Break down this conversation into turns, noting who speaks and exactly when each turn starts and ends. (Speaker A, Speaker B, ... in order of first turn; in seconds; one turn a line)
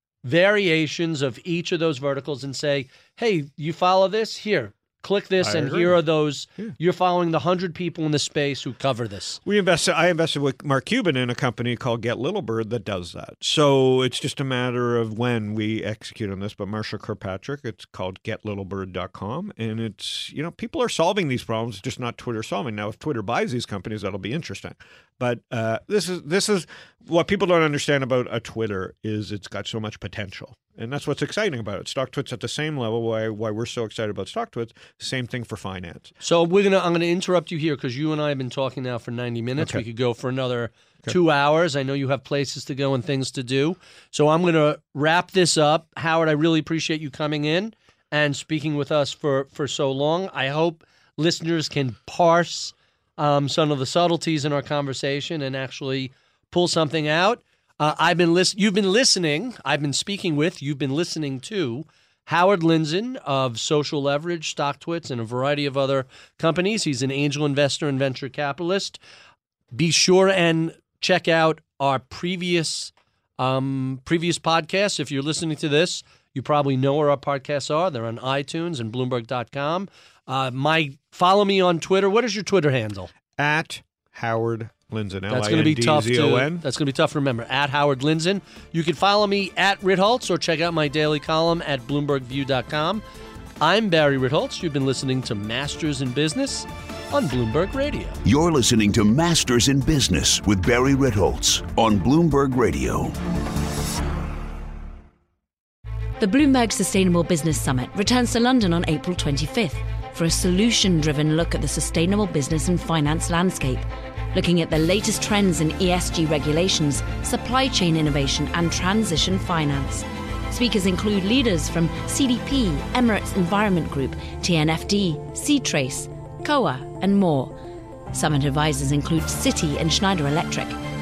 Speaker A: 0.2-9.4
Speaker B: 5.4-6.0
Speaker B: 9.4-36.1
Speaker A: 36.2-69.0
Speaker A: 69.7-83.1
Speaker B: 83.4-86.7
Speaker A: 85.3-93.0
Speaker A: 93.6-98.2
Speaker C: 98.2-103.2
Speaker D: 106.2-127.5
Speaker D: 128.1-130.8